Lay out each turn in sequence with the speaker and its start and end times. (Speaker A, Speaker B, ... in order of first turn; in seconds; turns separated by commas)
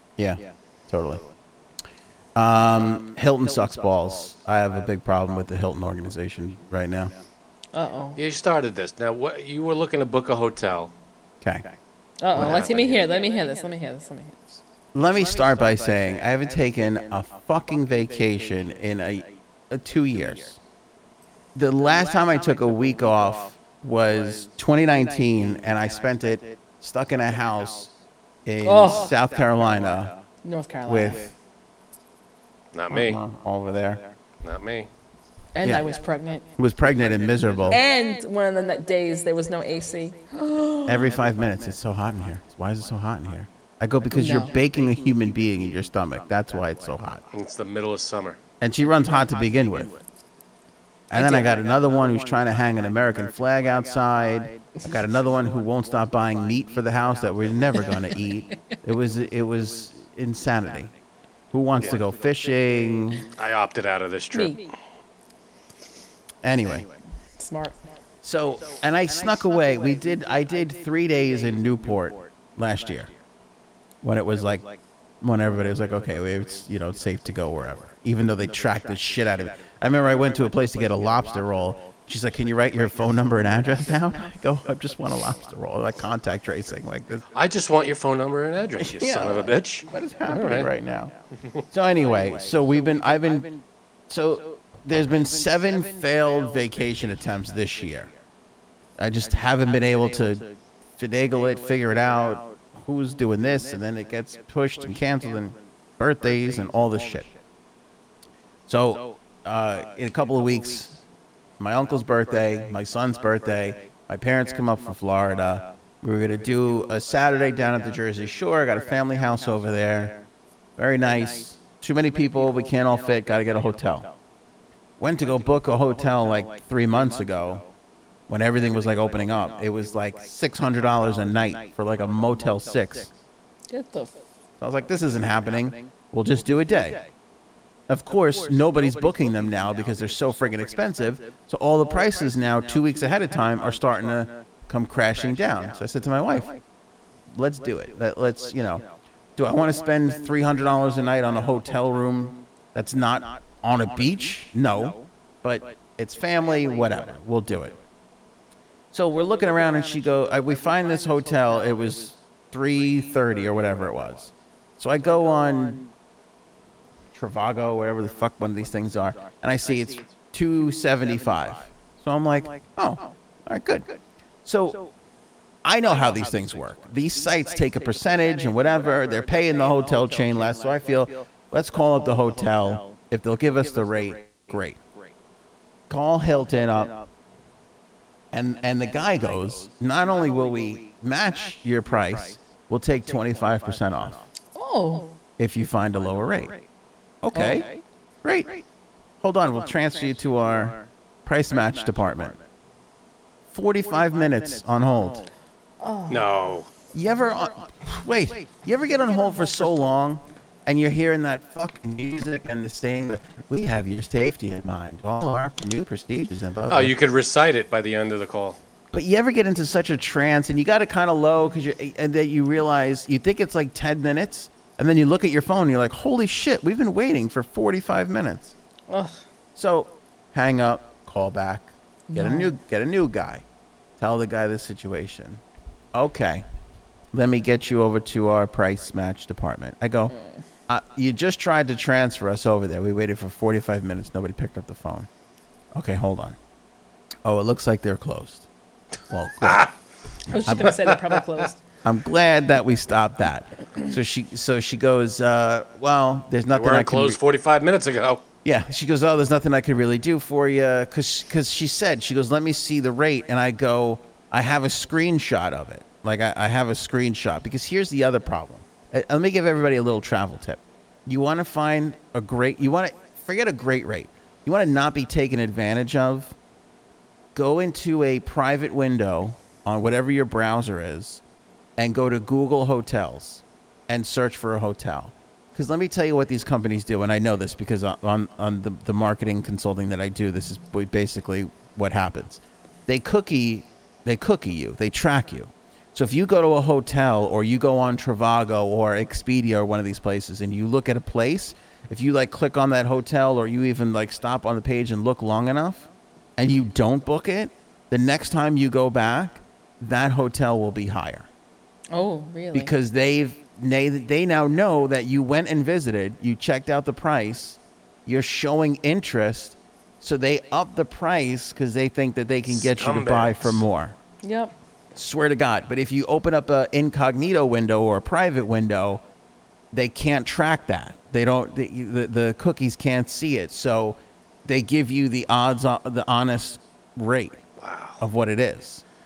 Speaker A: 0.2-1.2, Speaker A: 2.3-7.1, Speaker B: 7.7-8.2, Speaker C: 8.2-10.9, Speaker A: 11.4-11.7, Speaker B: 12.2-14.6, Speaker A: 12.3-12.8, Speaker C: 12.3-13.0, Speaker A: 14.9-20.6, Speaker A: 21.5-27.9, Speaker A: 28.4-30.2, Speaker B: 28.6-29.1, Speaker B: 30.4-31.3, Speaker A: 30.9-31.3, Speaker C: 32.7-33.2, Speaker A: 32.9-34.0, Speaker C: 34.4-34.9, Speaker B: 35.5-36.4, Speaker A: 35.6-35.9, Speaker A: 36.6-37.8, Speaker B: 37.7-41.1, Speaker A: 40.9-47.2, Speaker B: 44.1-44.5, Speaker C: 47.3-48.4, Speaker A: 48.6-50.0, Speaker A: 51.1-60.9, Speaker B: 51.1-51.6, Speaker A: 61.5-63.3, Speaker C: 63.4-64.6, Speaker B: 64.3-64.7, Speaker A: 66.4-66.9, Speaker B: 67.4-67.8, Speaker A: 68.2-73.1, Speaker A: 74.0-87.2, Speaker C: 87.3-90.7, Speaker A: 88.8-91.1, Speaker A: 91.7-98.1, Speaker A: 99.0-107.3, Speaker A: 108.7-111.0, Speaker A: 111.6-120.2, Speaker A: 120.8-124.1, Speaker A: 125.0-127.7, Speaker A: 128.3-133.1, Speaker B: 133.7-134.1, Speaker A: 134.6-137.1, Speaker A: 137.9-146.6, Speaker A: 147.3-148.8, Speaker A: 149.4-157.8, Speaker A: 158.9-165.9, Speaker A: 167.1-174.9, Speaker A: 175.6-184.8, Speaker A: 185.9-187.1, Speaker A: 188.3-194.2, Speaker B: 194.5-195.2, Speaker A: 195.4-196.6, Speaker A: 197.2-198.6, Speaker B: 197.3-197.6, Speaker A: 199.2-202.4, Speaker A: 203.5-205.3, Speaker B: 205.8-206.3, Speaker C: 206.1-206.7, Speaker A: 206.9-216.9, Speaker C: 216.7-218.6, Speaker A: 218.9-228.5, Speaker B: 228.9-229.2, Speaker A: 229.6-233.4, Speaker B: 232.1-232.5, Speaker A: 234.0-235.4, Speaker A: 235.9-236.4, Speaker A: 237.1-240.1, Speaker A: 240.7-245.1, Speaker A: 245.7-246.4, Speaker A: 247.2-248.4, Speaker A: 249.1-249.7, Speaker C: 249.4-249.7, Speaker B: 250.3-251.6, Speaker A: 250.4-250.8, Speaker C: 250.6-251.2, Speaker A: 251.8-257.2, Speaker C: 256.5-258.2, Speaker A: 258.4-276.3, Speaker A: 277.3-281.2, Speaker A: 281.8-311.3, Speaker B: 311.9-312.7, Speaker A: 312.5-323.9, Speaker C: 322.6-323.6, Speaker B: 324.2-324.5, Speaker A: 324.9-329.0, Speaker A: 329.7-337.4, Speaker C: 337.6-338.0, Speaker A: 338.0-338.8